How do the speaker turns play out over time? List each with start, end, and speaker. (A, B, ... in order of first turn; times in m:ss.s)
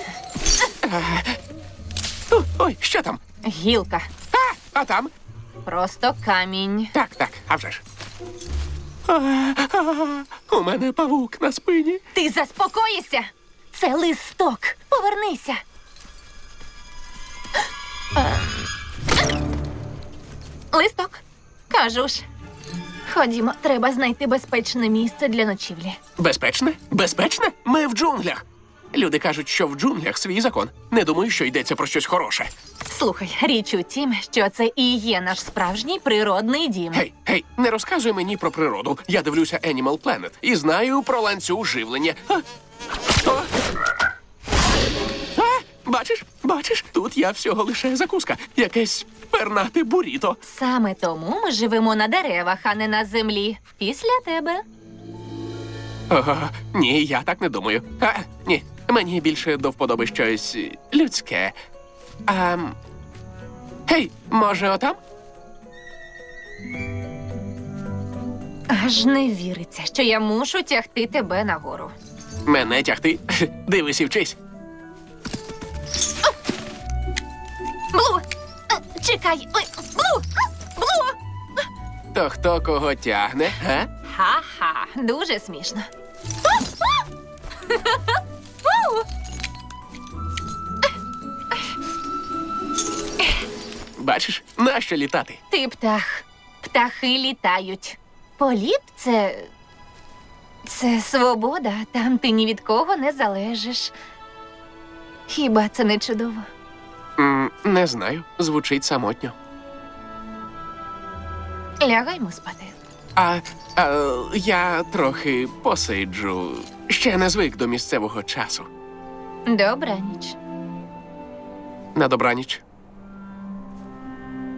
0:00.8-0:01.4 A
0:02.3-0:03.2 A
0:03.4-0:04.1 B
0:04.3-0:05.1 A
0:05.6-0:06.9 B
0:06.9-0:07.8 A
0:09.1-0:12.0 A
0:12.1-0:15.6 B
0:18.2-0:18.7 B
0:20.7-0:22.3 B
0:23.1-0:26.0 B
0:26.2-0:32.5 A
0:32.9-0:37.0 B
0:36.9-0:42.4 A
0:43.2-0:43.5 A
0:45.4-0:50.4 A
0:50.4-0:54.6 B
0:56.1-1:01.6 A
1:02.3-1:02.8 A
1:03.9-1:05.0 A
1:08.7-1:11.9 B
1:12.5-1:14.4 A
1:17.9-1:21.2 B
1:22.1-1:23.9 A
1:24.0-1:25.9 B
1:26.5-1:26.9 B
1:27.6-1:29.0 B
1:34.0-1:35.4 A
1:35.5-1:39.5 B
1:40.6-1:44.0 B
1:45.3-1:46.5 B
1:47.2-1:49.4 A
1:51.8-1:52.8 B
1:53.2-1:58.7 A
1:59.5-2:00.4 B
2:02.0-2:02.6 A